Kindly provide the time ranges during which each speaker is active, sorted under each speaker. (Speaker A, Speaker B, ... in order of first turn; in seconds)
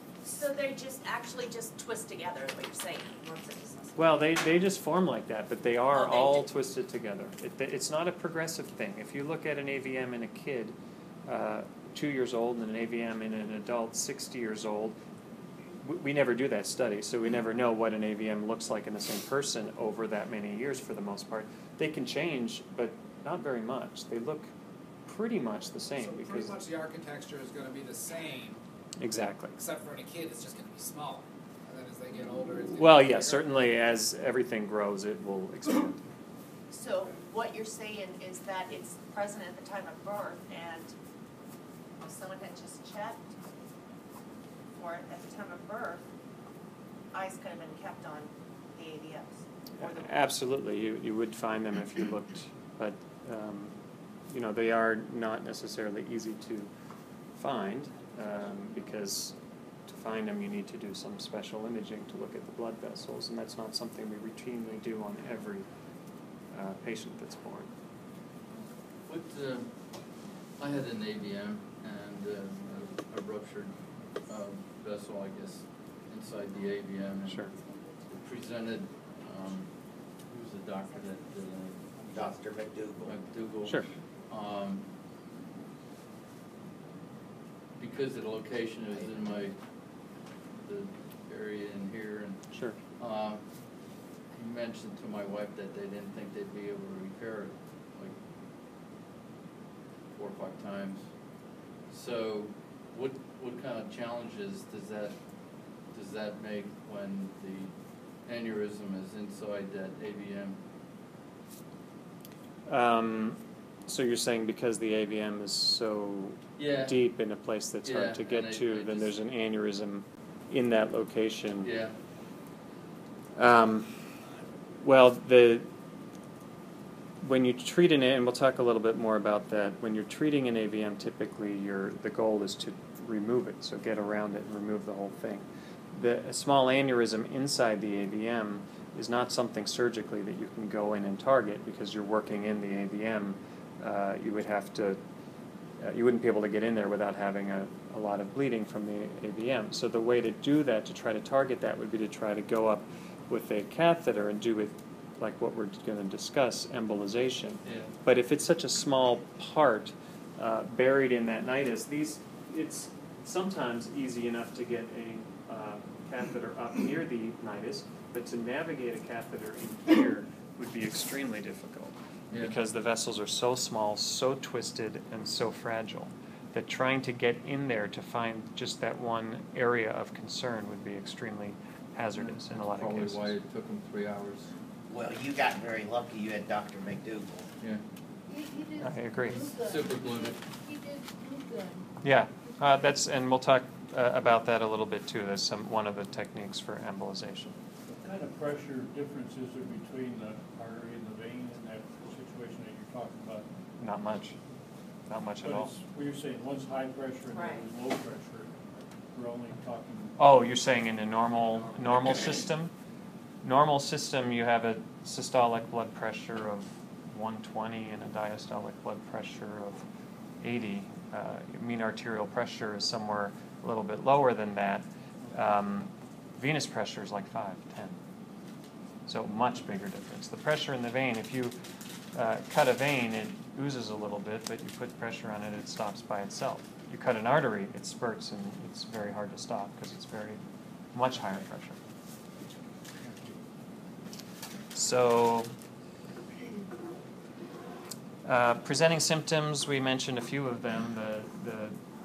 Speaker A: 0.2-4.1, 5.9-6.5, 36.7-40.9, 42.0-43.3, 44.7-46.1, 47.1-50.1, 207.3-207.7
Speaker B: 4.0-15.0, 15.8-24.5, 25.1-26.6, 29.0-29.6, 32.8-36.0, 49.8-53.8, 54.3-56.7, 57.4-59.4, 59.9-65.7, 66.5-67.7, 112.7-121.7, 123.4-124.0, 124.8-125.7, 127.2-145.0, 145.8-183.3, 188.8-189.4, 192.0-197.6, 203.8-204.4, 205.1-205.7, 210.2-212.7, 213.4-219.8, 220.4-228.0, 229.1-231.6, 232.1-240.4, 240.9-241.8, 244.7-245.5, 248.2-251.8
Speaker C: 26.0-28.6, 29.6-33.6
Speaker D: 69.0-79.7, 80.2-82.3, 83.0-84.8, 87.8-89.6, 90.6-93.5, 94.3-98.2, 100.1-101.1, 101.9-105.2, 105.9-107.7, 108.2-110.6, 116.6-117.0, 117.8-119.1, 121.6-121.9, 157.7-157.9, 182.2-184.5, 189.3-190.4
Speaker E: 82.1-83.2, 184.9-187.5
Speaker F: 188.3-191.9
Speaker G: 197.9-203.5, 205.4-208.6, 209.1-210.2